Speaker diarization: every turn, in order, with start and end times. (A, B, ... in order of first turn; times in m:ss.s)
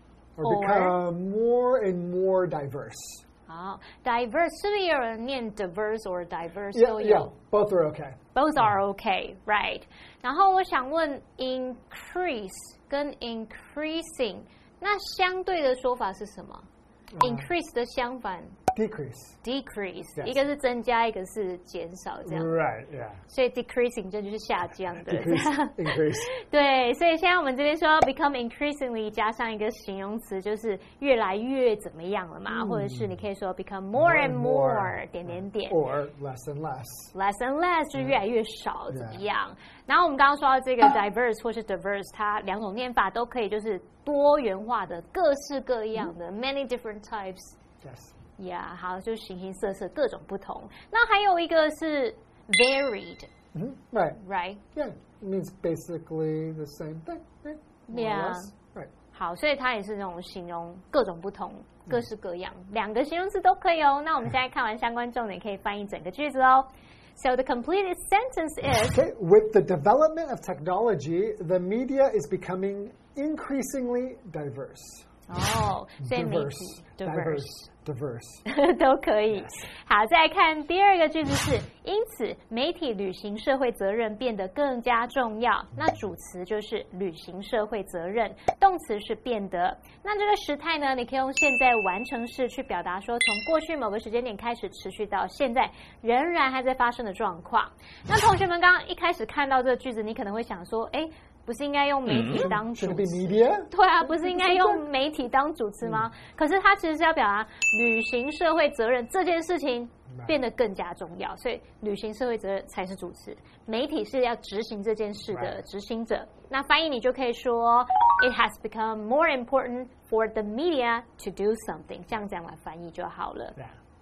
0:00.4-0:03.2 A
0:00.4-0:01.0 B
0:03.5-0:07.3 B
0:06.7-0:08.7 A
0:08.3-0:16.6 B
0:17.1-0:17.5 A
0:17.2-0:18.6 B
0:18.7-0:19.4 A
0:19.4-0:22.5 B
0:22.2-0:23.2 A
0:23.3-0:25.8 B
0:25.1-0:26.3 A
0:26.4-0:35.8 B
0:32.5-0:33.2 A
0:34.0-0:37.1 A
0:37.1-0:47.6 B
0:37.9-0:38.2 A
0:38.9-0:39.2 A
0:47.8-0:48.1 A
0:48.4-0:53.3 B
0:53.5-0:54.2 A
0:54.2-0:54.6 B
0:54.7-0:58.9 A
0:57.9-0:58.5 B
0:59.1-1:09.0 B
1:08.9-1:15.0 A
1:15.3-1:17.6 B
1:16.0-1:18.4 A
1:18.5-2:03.6 B
1:19.3-1:19.7 A
1:42.3-1:44.8 A
1:45.8-1:46.1 A
1:50.1-1:50.4 A
1:55.3-1:55.6 A